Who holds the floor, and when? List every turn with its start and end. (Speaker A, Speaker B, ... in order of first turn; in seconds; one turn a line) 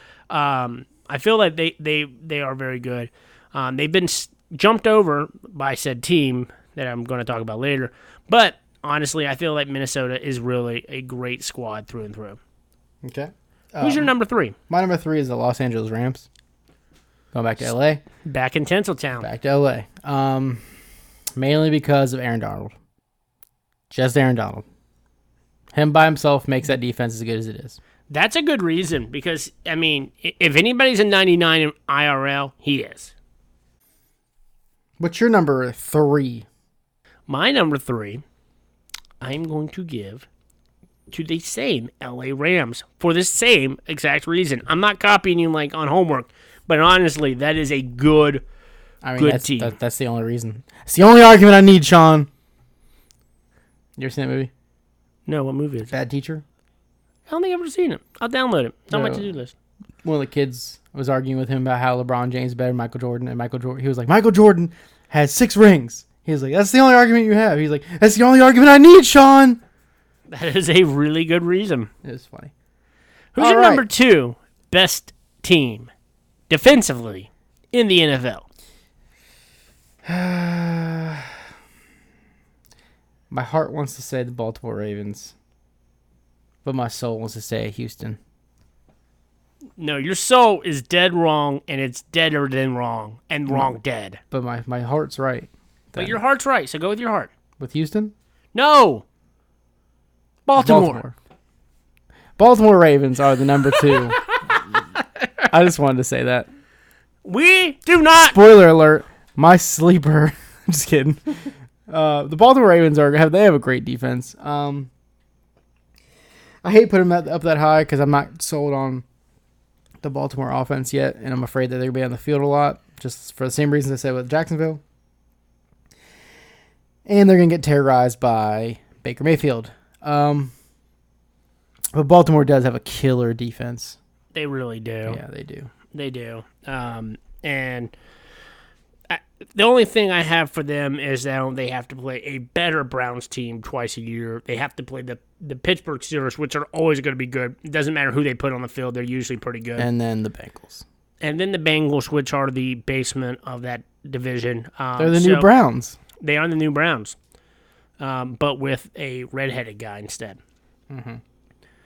Speaker A: 0.3-12.4
Speaker B: 13.0-14.1
Speaker A: 13.8-14.5
Speaker B: 14.7-16.3
Speaker B: 17.3-18.0
Speaker A: 18.2-19.3
Speaker B: 19.2-20.6
Speaker B: 21.4-22.7
Speaker B: 23.9-24.6
Speaker B: 25.7-27.8
Speaker A: 28.1-33.1
Speaker B: 35.0-36.5
Speaker A: 37.3-38.2
Speaker A: 39.2-40.3
Speaker A: 41.1-48.4
Speaker B: 49.0-52.3
Speaker A: 49.2-49.7
Speaker B: 54.0-54.5
Speaker A: 55.3-55.9
Speaker B: 55.9-56.4
Speaker A: 57.3-59.5
Speaker B: 58.9-59.3
Speaker B: 60.0-69.6
Speaker A: 70.3-71.9
Speaker B: 72.0-72.5
Speaker A: 73.3-75.9
Speaker B: 73.4-73.9
Speaker A: 76.5-78.5
Speaker B: 80.0-81.3
Speaker B: 83.3-85.3
Speaker B: 86.6-88.2
Speaker A: 89.8-94.2
Speaker B: 93.5-93.7
Speaker B: 94.3-96.2
Speaker A: 96.0-97.3
Speaker B: 97.6-98.1
Speaker A: 98.5-99.0
Speaker A: 100.5-101.0
Speaker B: 100.5-101.1
Speaker B: 102.4-104.2
Speaker A: 103.8-105.3
Speaker B: 105.5-106.5
Speaker A: 107.2-108.4
Speaker B: 108.2-114.9
Speaker B: 116.6-119.0
Speaker B: 120.0-124.8
Speaker B: 127.0-130.5
Speaker B: 131.9-134.0
Speaker A: 134.3-135.2
Speaker B: 135.1-135.7
Speaker A: 135.9-137.9
Speaker A: 139.1-149.9
Speaker B: 149.8-150.8
Speaker A: 151.2-155.5
Speaker B: 155.0-156.0
Speaker A: 156.2-157.2
Speaker A: 158.0-160.4
Speaker B: 160.9-161.2